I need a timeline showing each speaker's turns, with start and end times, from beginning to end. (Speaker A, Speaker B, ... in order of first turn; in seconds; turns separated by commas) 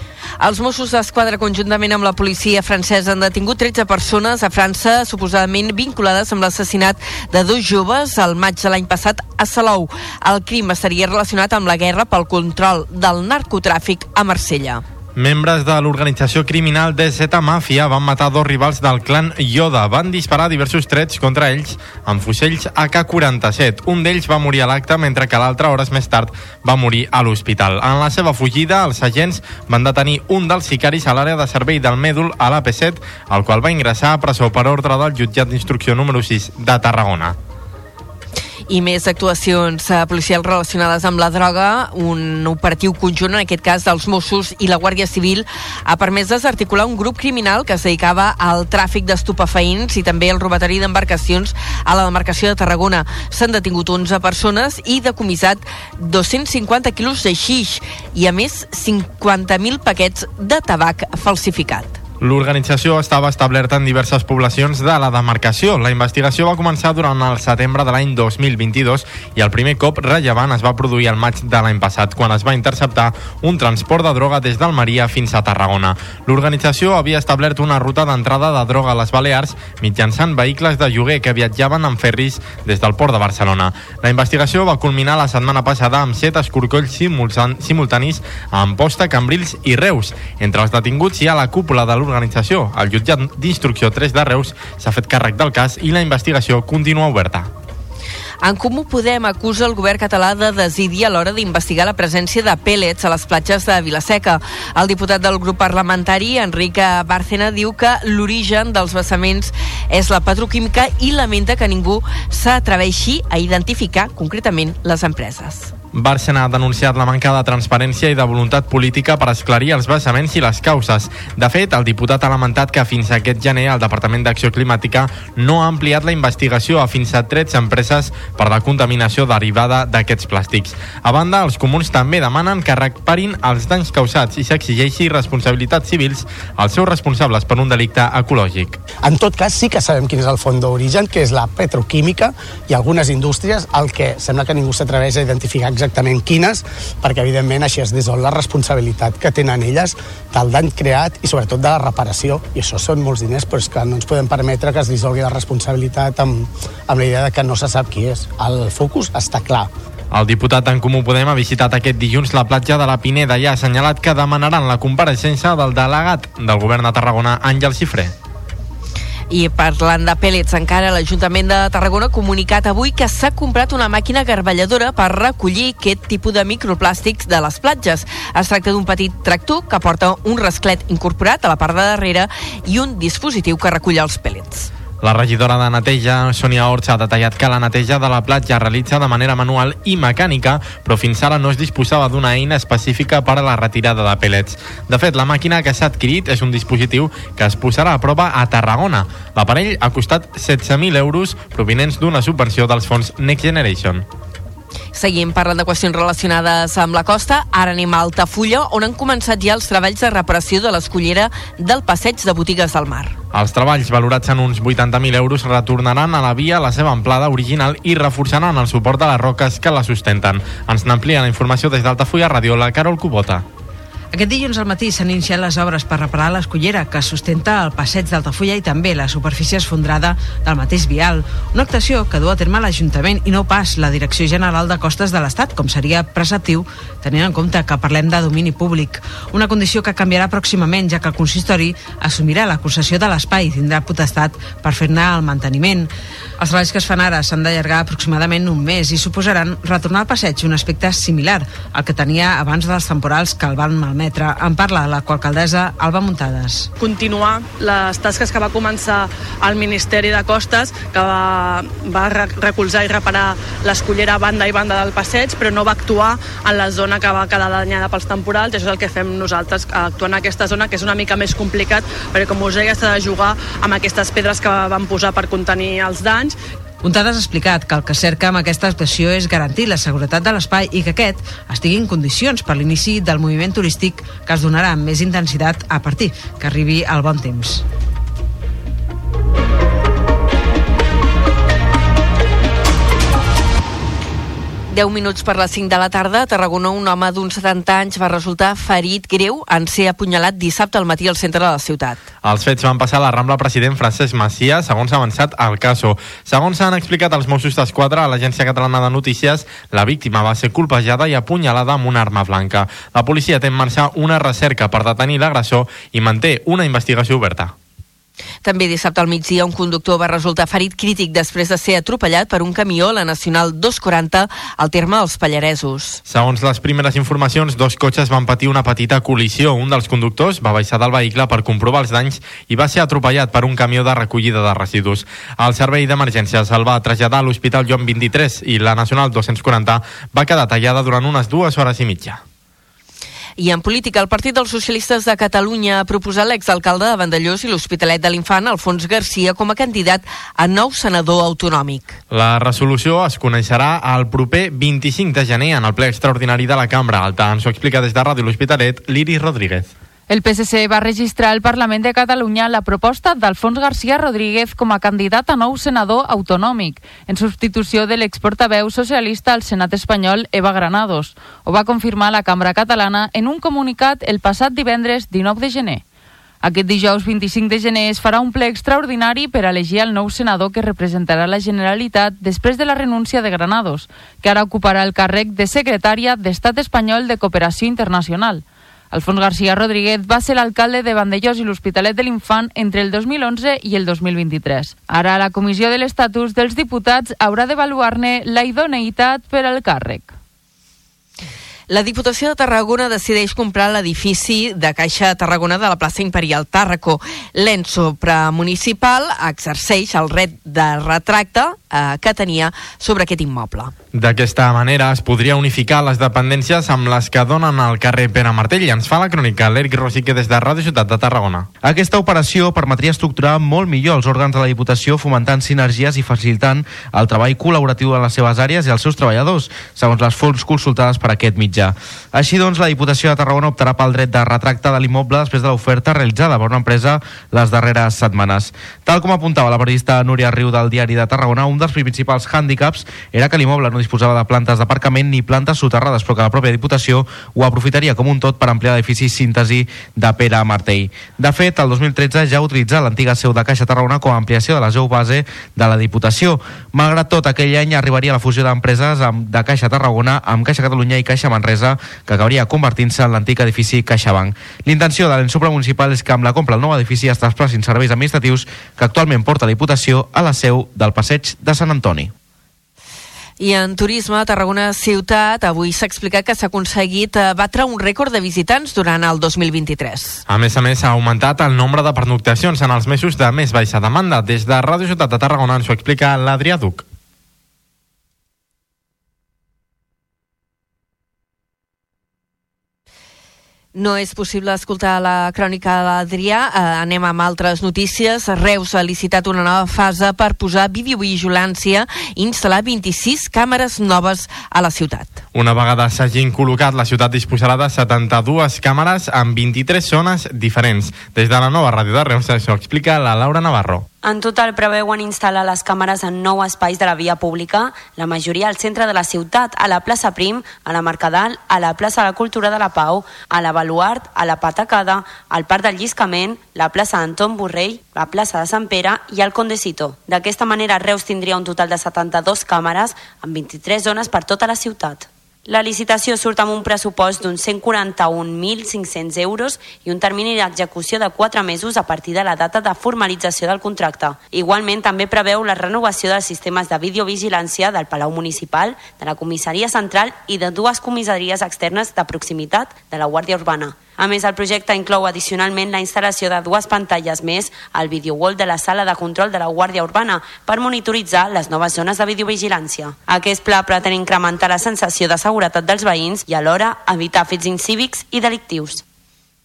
Speaker A: 0.4-14.8, Speaker B: 15.2-37.4, Speaker A: 38.7-62.0, Speaker B: 62.2-97.5, Speaker A: 98.4-115.7, Speaker B: 115.9-138.8, Speaker C: 139.0-159.7, Speaker B: 160.1-168.1, Speaker A: 169.3-184.7, Speaker B: 185.0-204.1, Speaker A: 204.9-213.1, Speaker B: 213.3-223.4, Speaker D: 224.1-256.7, Speaker E: 256.8-276.4, Speaker D: 276.8-287.6, Speaker A: 294.7-302.0, Speaker B: 302.2-317.5, Speaker A: 318.4-326.0, Speaker B: 326.1-342.2, Speaker A: 343.4-352.0, Speaker B: 352.1-359.7, Speaker F: 360.1-375.8, Speaker F: 376.4-400.1, Speaker A: 401.7-413.7, Speaker B: 413.9-421.5, Speaker G: 421.6-472.1, Speaker A: 473.4-480.2, Speaker B: 480.3-486.9, Speaker A: 493.8-505.2, Speaker B: 505.3-513.9, Speaker H: 514.0-568.8